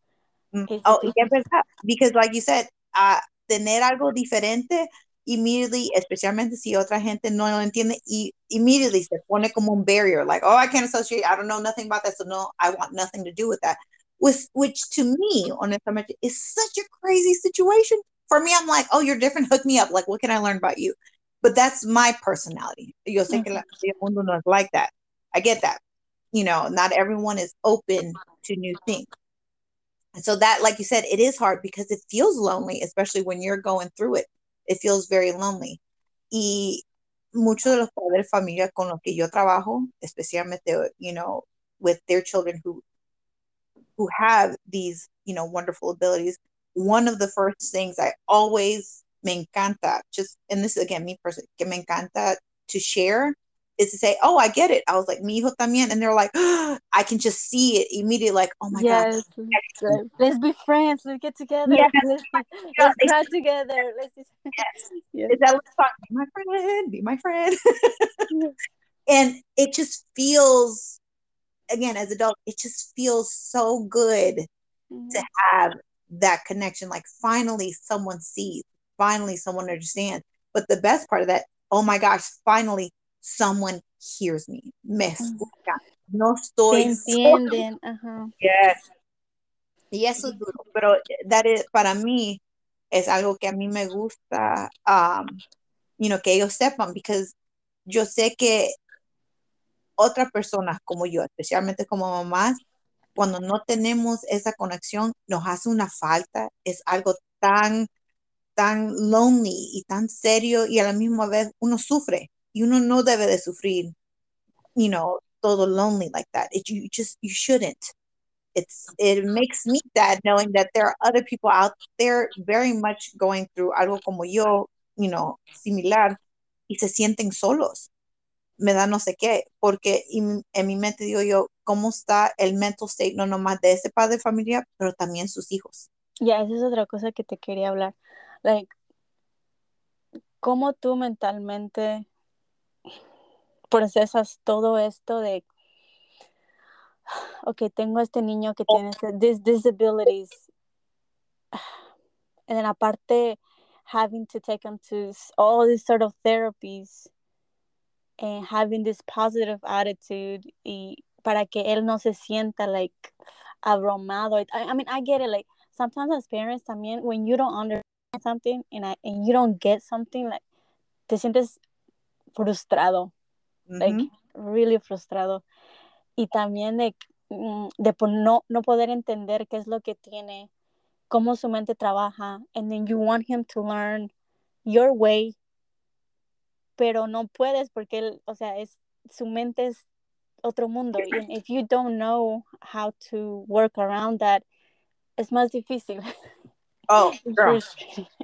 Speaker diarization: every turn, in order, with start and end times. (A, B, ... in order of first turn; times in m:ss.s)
0:00.5-0:25.8 A
0:00.7-0:01.3 B
0:23.3-0:23.6 B
0:26.3-0:29.1 A
0:30.2-0:35.8 A
0:36.3-0:42.8 A
0:44.0-1:00.0 A
0:58.7-1:04.6 B
1:01.7-1:02.0 A
1:02.8-1:03.1 A
1:05.1-1:05.4 B
1:05.3-1:08.1 A
1:08.3-1:08.6 B
1:09.1-1:11.0 A
1:11.7-1:14.5 A
1:14.9-1:15.2 B
1:15.1-1:27.6 A
1:25.2-1:25.5 B
1:26.7-1:28.3 B
1:28.4-1:28.8 A
1:29.9-1:32.4 A
1:32.9-1:35.4 A
1:36.0-1:37.4 A
1:37.9-1:38.7 A
1:40.0-1:42.6 A
1:43.2-1:47.9 A
1:48.6-1:53.9 A
1:54.8-1:57.9 A
1:58.6-2:06.2 A
2:06.7-2:07.9 A
2:08.6-2:15.9 A
2:16.2-2:18.7 B
2:20.4-2:22.1 B
2:23.7-2:25.5 B
2:27.5-2:30.4 B
2:32.5-2:37.1 B
2:38.2-2:43.1 B
2:43.6-2:50.4 B
2:51.1-2:51.6 B
2:52.4-2:53.1 B
2:53.7-2:54.1 A
2:53.8-2:55.4 B
2:56.2-3:00.5 B
3:01.1-3:04.1 B
3:04.7-3:05.4 B
3:06.8-3:09.9 B
3:10.4-3:14.4 B
3:15.2-3:16.1 B
3:16.9-3:17.6 A
3:17.2-3:18.1 B